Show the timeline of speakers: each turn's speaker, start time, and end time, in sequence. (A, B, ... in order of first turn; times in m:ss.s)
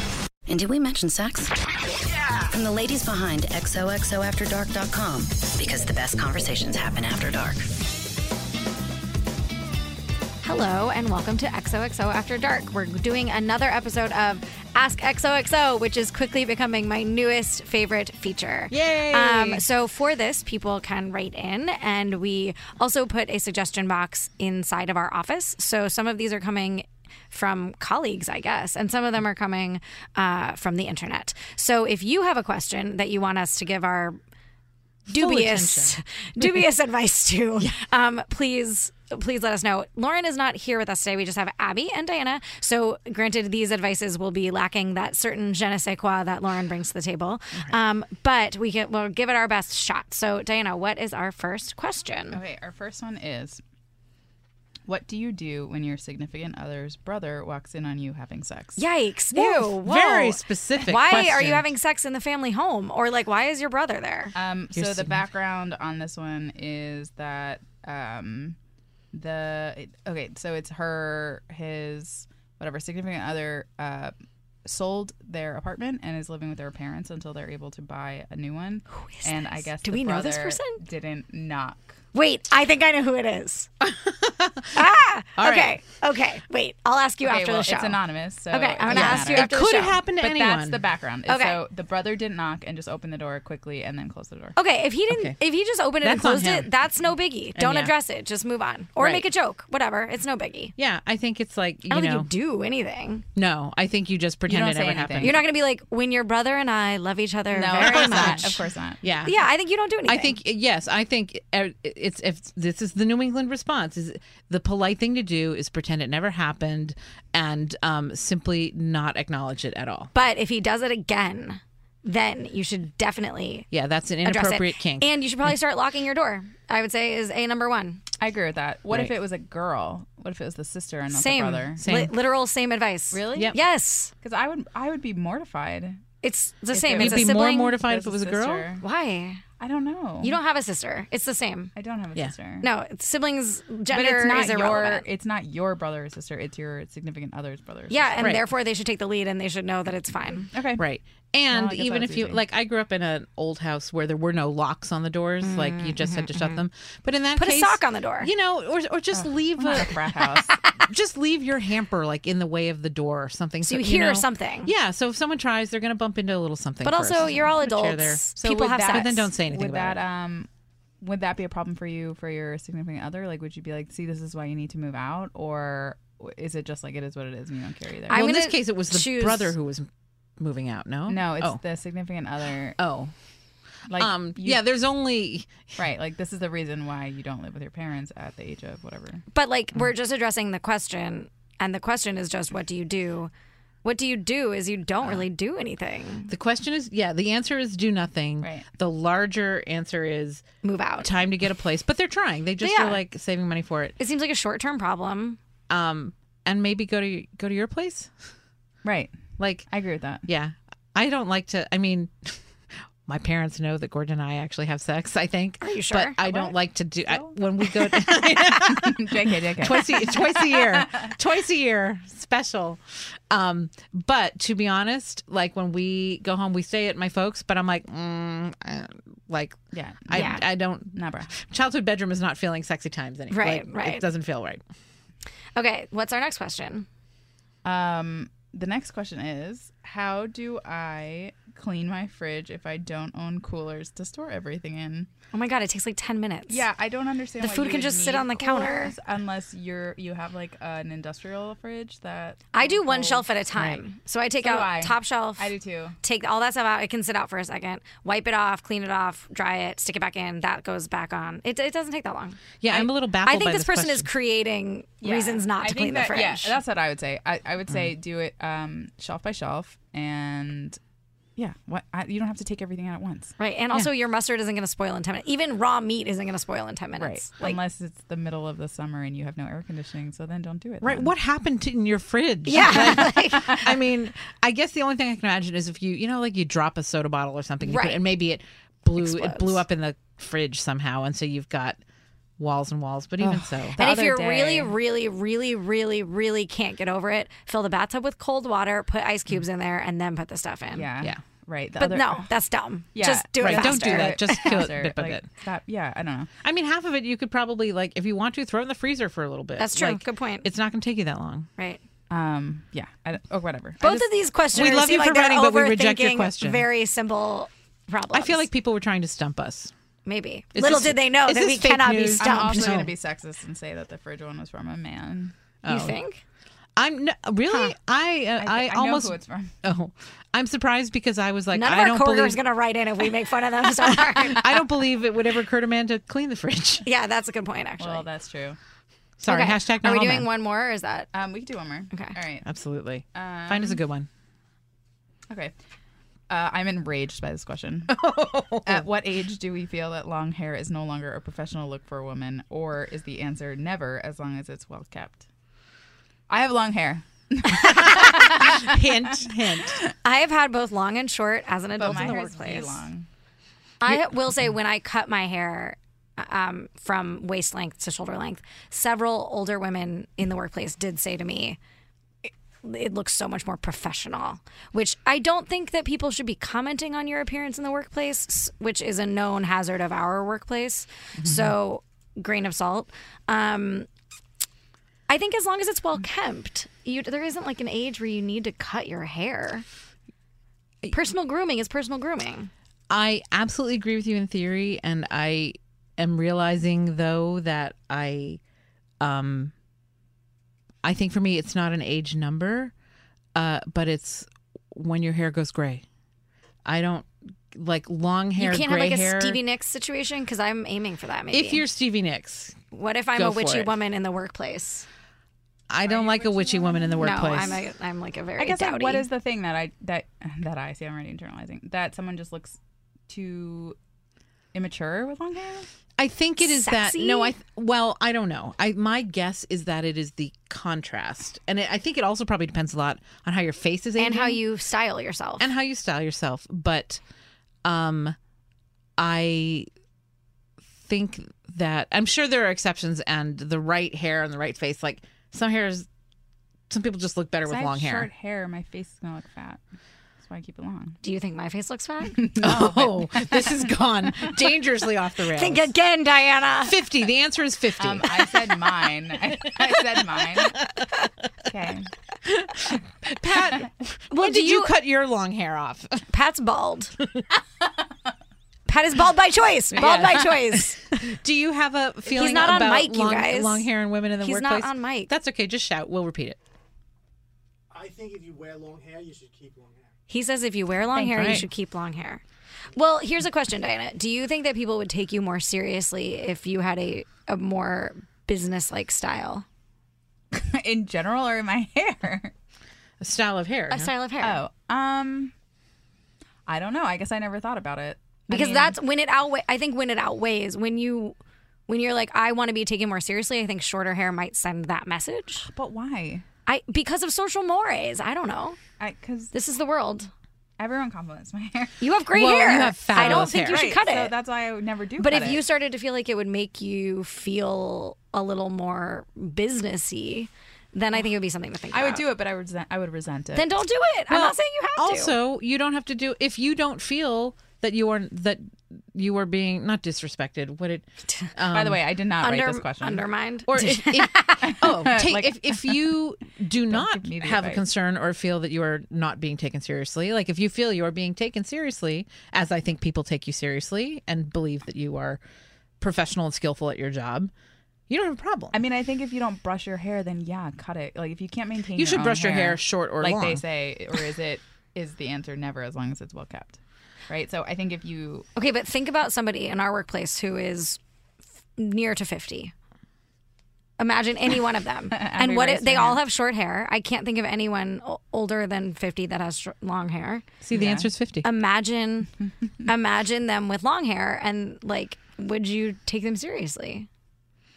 0:00.5-0:01.6 A
0:02.4-0:07.7 A
0:10.4-0:34.2 B
0:18.7-0:19.6 C
0:35.1-0:36.7 C
0:35.1-0:52.4 B
0:52.3-0:53.6 D
0:54.8-0:58.8 D
0:58.8-1:04.3 B
0:59.3-1:01.7 C
1:04.3-1:08.6 D
1:04.7-1:05.2 C
1:09.1-1:22.0 D
1:19.0-1:20.8 B
1:22.1-1:23.7 B
1:23.8-1:25.8 C
1:24.7-1:30.0 B
1:27.2-1:34.6 D
1:28.9-1:30.8 C
1:31.3-1:31.6 B
1:34.6-1:40.7 B
1:35.1-1:35.4 C
1:36.0-1:36.7 C
1:37.5-1:37.9 C
1:39.0-1:39.3 C
1:40.8-1:42.3 C
1:41.9-1:43.2 B
1:43.4-1:45.4 C
1:44.5-1:45.4 D
1:45.2-1:48.6 B
1:47.5-1:49.0 D
1:47.8-1:49.4 C
1:49.2-1:50.4 B
1:50.0-2:00.1 C
2:00.1-2:03.7 B
2:03.7-2:05.1 C
2:04.2-2:08.0 B
2:08.2-2:11.8 D
2:11.1-2:14.1 B
2:11.8-2:12.2 C
2:13.1-2:13.6 D
2:14.2-2:16.0 D
2:16.2-2:17.8 B
2:16.7-2:18.8 D
2:16.9-2:18.7 C
2:18.8-2:19.4 B
2:19.6-2:20.4 D
2:20.2-2:21.7 B
2:21.8-2:22.7 D
2:22.6-2:25.0 B
2:23.9-2:28.4 D
2:27.9-2:30.5 B
2:28.2-2:28.4 C
2:30.5-2:30.9 D
2:30.8-2:40.0 C
2:31.5-2:32.4 D
2:35.4-2:36.6 B
2:37.4-2:38.3 B
2:39.1-2:40.7 D
2:40.2-2:40.8 B
2:40.8-2:50.0 C
2:43.6-2:44.7 B
2:46.8-2:49.3 B
2:47.2-2:47.6 D
2:48.6-2:50.5 D
2:51.0-2:58.2 D
2:58.1-2:59.5 B
2:58.1-3:01.6 C
3:01.1-3:02.8 D
3:02.8-3:03.1 C
3:03.9-3:04.6 D
3:03.9-3:05.7 C
3:05.8-3:09.2 D
3:09.3-3:13.3 B
3:13.8-3:16.3 B
3:16.3-3:20.4 C
3:18.4-3:18.7 D
3:20.6-3:21.2 B
3:21.0-3:23.9 C
3:22.6-3:23.0 B
3:24.0-3:25.4 B
3:25.7-3:28.1 C
3:28.8-3:29.2 D
3:29.4-3:29.7 C
3:29.7-3:30.3 D
3:30.2-3:32.4 C
3:33.0-3:54.6 C
3:35.6-3:36.2 B
3:36.2-3:36.5 D
3:37.1-3:41.0 D
3:49.7-3:51.4 D
3:50.1-3:50.4 B
3:53.3-3:54.0 B
3:55.5-3:56.8 B
3:57.6-4:05.1 D
4:05.3-4:06.6 B
4:06.5-4:13.8 D
4:07.4-4:08.9 B
4:12.5-4:26.6 B
4:14.4-4:16.0 D
4:22.6-4:24.1 C
4:25.0-4:30.8 D
4:31.4-4:33.4 D
4:33.4-4:37.6 B
4:37.0-4:37.2 C
4:37.3-4:41.1 D
4:40.8-4:51.8 C
4:42.4-4:43.6 B
4:42.6-4:43.4 D
4:47.6-4:48.0 B
4:48.9-4:49.6 B
4:52.4-4:53.8 C
4:53.2-4:54.7 D
4:53.8-5:00.9 B
5:00.7-5:02.3 D
5:01.8-5:04.6 B
5:02.9-5:06.3 D
5:03.4-5:05.3 C
5:06.4-5:11.5 C
5:09.6-5:10.5 B
5:11.6-5:11.8 B
5:12.1-5:14.9 D
5:13.8-5:18.5 B
5:14.5-5:16.7 C
5:18.1-5:19.7 C
5:20.0-5:22.8 B
5:20.5-5:22.9 C
5:22.2-5:25.3 D
5:25.6-5:26.0 C
5:25.6-5:26.2 B
5:26.8-5:32.4 C
5:27.5-5:27.7 B
5:28.4-5:29.5 D
5:31.5-5:34.7 B
5:33.6-5:36.9 C
5:36.8-5:38.0 B
5:37.8-5:38.6 D
5:39.2-5:40.3 C
5:39.2-5:41.1 B
5:41.1-5:42.4 D
5:41.9-5:42.2 B
5:42.4-5:44.1 C
5:43.1-5:43.8 D
5:45.3-5:45.5 D
5:46.3-5:48.0 D
5:47.9-5:48.8 C
5:48.6-5:55.2 D
5:56.3-5:59.8 D
5:57.6-5:59.8 C
6:00.0-6:02.8 B
6:01.8-6:03.1 D
6:03.8-6:11.6 B
6:03.9-6:04.4 C
6:12.2-6:23.9 B
6:21.2-6:21.6 C
6:25.1-6:29.6 B
6:30.9-6:32.5 B
6:32.9-6:38.4 C
6:39.0-6:39.5 C
6:40.8-6:42.7 C
6:43.3-6:45.8 C
6:46.6-6:49.4 C
6:48.4-6:51.6 B
6:51.3-6:52.6 C
6:52.7-6:54.9 B
6:53.2-6:53.8 C
6:55.7-6:57.6 C
6:55.9-6:57.6 D
6:57.0-6:59.1 B
6:58.4-7:02.6 D
7:03.1-7:03.8 D
7:04.5-7:05.7 D
7:06.0-7:14.4 C
7:06.4-7:07.4 B
7:14.0-7:15.5 B
7:15.4-7:17.0 C
7:17.6-7:18.2 C
7:19.0-7:19.7 C
7:20.8-7:25.8 C
7:26.7-7:28.1 C
7:27.4-7:29.6 D
7:30.2-7:31.0 D
7:31.0-7:32.2 B
7:32.1-7:33.8 D
7:32.4-7:35.7 C
7:35.3-7:36.8 B
7:36.6-7:38.6 C
7:37.8-7:40.7 D
7:40.4-7:40.9 C
7:41.4-7:41.9 D
7:42.2-7:46.1 C
7:44.1-7:44.8 B
7:46.1-7:47.0 B
7:48.7-7:51.1 B
7:49.7-7:56.4 C
7:52.1-7:55.1 B
7:57.7-7:59.7 E
8:00.1-8:02.2 B
8:00.9-8:01.4 D
8:01.1-8:01.5 C
8:02.7-8:09.4 B
8:10.3-8:12.3 D
8:13.0-8:13.9 C
8:13.7-8:14.4 B
8:14.2-8:15.3 D
8:16.4-8:18.8 D
8:18.3-8:21.2 B
8:21.7-8:25.5 B
8:25.5-8:26.2 D
8:26.4-8:28.6 B
8:28.8-8:29.3 D
8:29.3-8:30.1 B
8:30.6-8:31.8 D
8:31.8-8:34.1 B
8:32.1-8:33.7 C
8:32.9-8:35.4 D
8:35.0-8:42.0 B
8:41.7-8:43.5 D
8:43.3-8:45.2 B
8:44.1-8:51.8 C
8:51.1-8:51.3 B
8:51.5-8:53.0 D
8:52.2-8:54.6 B
8:53.5-9:05.2 C
8:54.4-8:55.8 D
8:56.7-8:57.6 D
9:05.8-9:07.3 C
9:07.9-9:08.6 C
9:08.5-9:18.3 D
9:11.8-9:13.4 C
9:18.3-9:20.8 B
9:21.6-9:22.5 B
9:23.8-9:30.3 B
9:24.9-9:26.0 D
9:30.4-9:31.3 C
9:30.5-9:30.9 D
9:31.2-9:32.1 B
9:32.6-9:36.9 B